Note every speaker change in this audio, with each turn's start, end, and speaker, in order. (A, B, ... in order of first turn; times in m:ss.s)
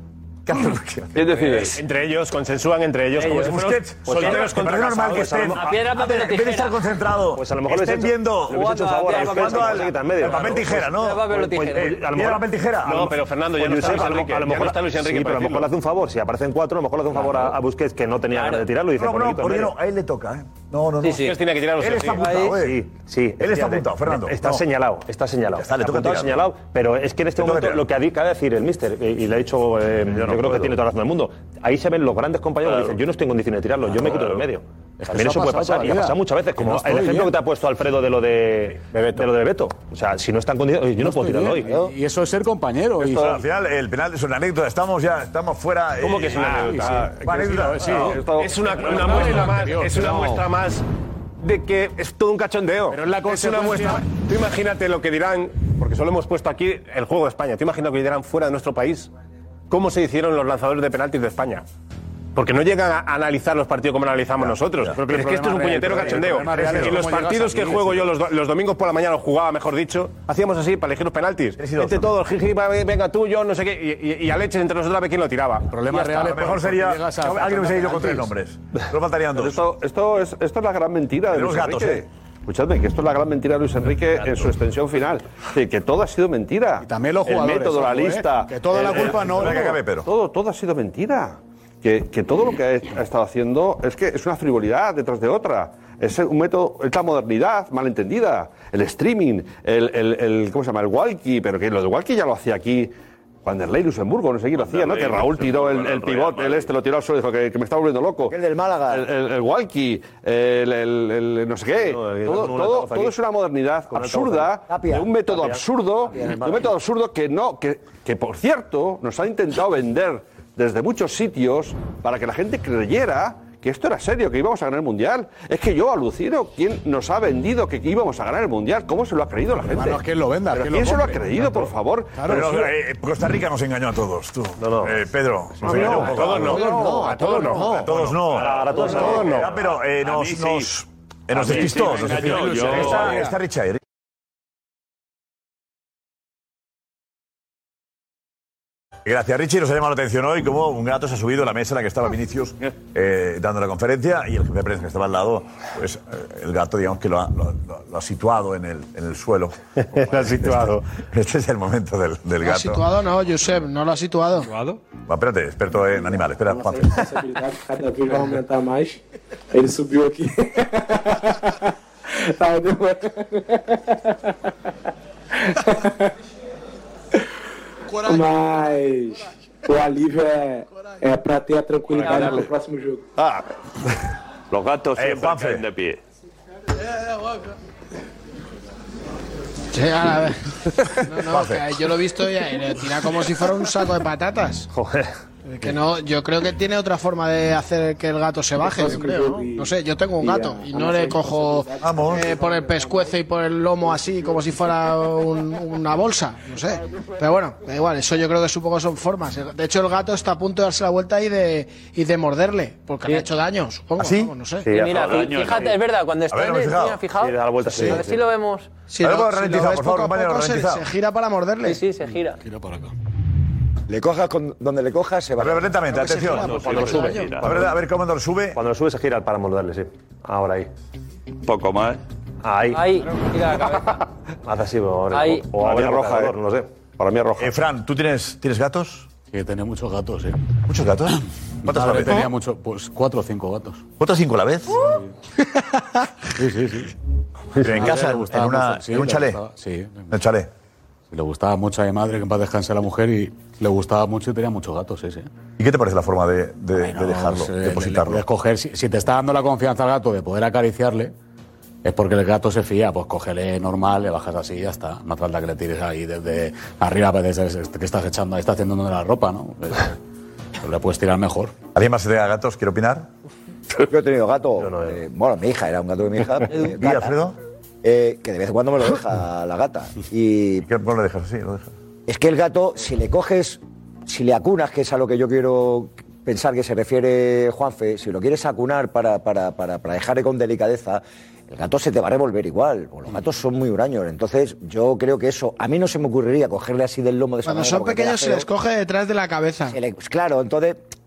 0:00.5-0:01.2 A
0:01.1-0:01.8 B
0:01.6-0:05.4 C
0:03.3-0:13.2 A
0:04.1-0:05.7 D
0:05.5-0:06.8 E
0:07.3-0:12.4 D
0:08.5-0:11.9 E
0:12.8-0:15.7 C
0:13.6-0:19.7 D
0:17.2-0:17.5 C
0:18.3-0:18.6 E
0:19.0-0:22.8 A
0:21.0-0:21.4 E
0:21.1-0:22.5 C
0:22.2-0:22.5 E
0:22.5-0:41.8 D
0:23.4-0:24.6 A
0:25.5-0:26.4 A
0:27.4-0:27.8 A
0:35.0-0:37.4 F
0:38.9-0:39.2 C
0:41.0-0:43.4 F
0:43.0-0:48.2 A
0:46.0-0:47.1 C
0:46.4-0:47.1 B
0:46.5-0:48.2 F
0:47.8-0:49.3 B
0:48.2-0:50.8 C
0:48.8-0:50.3 F
0:51.4-0:59.1 C
0:52.9-0:54.0 F
0:59.7-1:01.6 C
1:02.3-1:16.2 C
1:04.9-1:08.1 F
1:06.0-1:07.0 A
1:11.6-1:12.1 A
1:15.7-1:18.3 F
1:16.2-1:19.6 A
1:19.3-1:42.9 B
1:21.3-1:22.0 A
1:26.8-1:29.8 F
1:28.9-1:30.1 A
1:43.4-1:48.3 B
1:44.6-1:46.7 G
1:48.3-1:49.1 H
1:48.9-2:12.6 B
1:51.7-1:53.2 D
1:53.9-1:54.6 D
1:54.7-1:55.2 H
1:55.3-1:55.6 D
1:56.1-1:56.7 H
1:56.2-1:56.4 D
2:09.7-2:12.6 F
2:12.2-2:16.7 A
2:14.6-2:15.0 D
2:15.6-2:17.8 C
2:15.7-2:17.9 F
2:17.7-2:23.8 A
2:18.4-2:19.4 D
2:18.8-2:19.1 F
2:19.0-2:19.5 C
2:20.0-2:20.7 G
2:21.4-2:23.2 G
2:21.4-2:23.4 F
2:29.0-2:39.6 A
2:39.9-2:40.8 D
2:40.1-2:42.8 A
2:42.4-2:44.5 I
2:45.0-2:47.0 A
2:46.4-2:49.0 J
2:49.5-2:54.3 J
2:55.3-2:56.1 J
2:58.0-3:03.0 J
3:04.5-3:06.0 G
3:05.0-3:05.6 A
3:09.7-3:10.4 I
3:10.9-3:14.7 I
3:11.3-3:11.6 A
3:14.7-3:15.1 D
3:15.4-3:34.7 I
3:18.6-3:23.2 J
3:21.8-3:22.3 A
3:34.0-3:34.3 A
3:34.6-3:35.7 D
3:34.7-3:38.7 E
3:34.9-3:35.7 G
3:36.3-3:37.0 A
3:37.2-3:38.2 D
3:38.9-3:41.8 I
3:39.0-3:40.8 A
3:41.6-3:42.4 E
3:42.4-3:42.9 F
3:43.9-3:45.8 H
3:45.4-3:46.6 A
3:45.9-3:47.4 I
3:46.3-3:47.6 G
3:46.8-3:47.7 D
3:47.4-3:48.6 A
3:48.5-3:50.7 D
3:51.4-3:52.0 G
3:52.4-3:52.9 D
3:52.7-3:54.0 E
3:54.4-3:56.7 D
3:55.1-3:55.5 E
3:55.6-3:56.4 B
3:57.0-3:57.5 B
3:57.4-3:59.1 A
3:59.3-4:00.4 F
4:00.7-4:02.3 A
4:01.6-4:03.8 F
4:04.0-4:04.8 A
4:06.4-4:06.9 F
4:07.6-4:09.4 A
4:07.6-4:10.1 F
4:10.1-4:10.5 A
4:11.1-4:15.3 F
4:15.6-4:18.2 A
4:16.8-4:21.1 F
4:21.8-4:30.0 F
4:30.6-4:31.5 F
4:31.7-4:33.1 A
4:33.9-4:37.2 H
4:34.6-4:35.0 D
4:36.6-4:37.4 A
4:37.8-4:40.6 H
4:40.6-4:41.7 A
4:42.1-4:58.5 H
4:57.4-4:59.8 I
4:59.7-5:00.8 H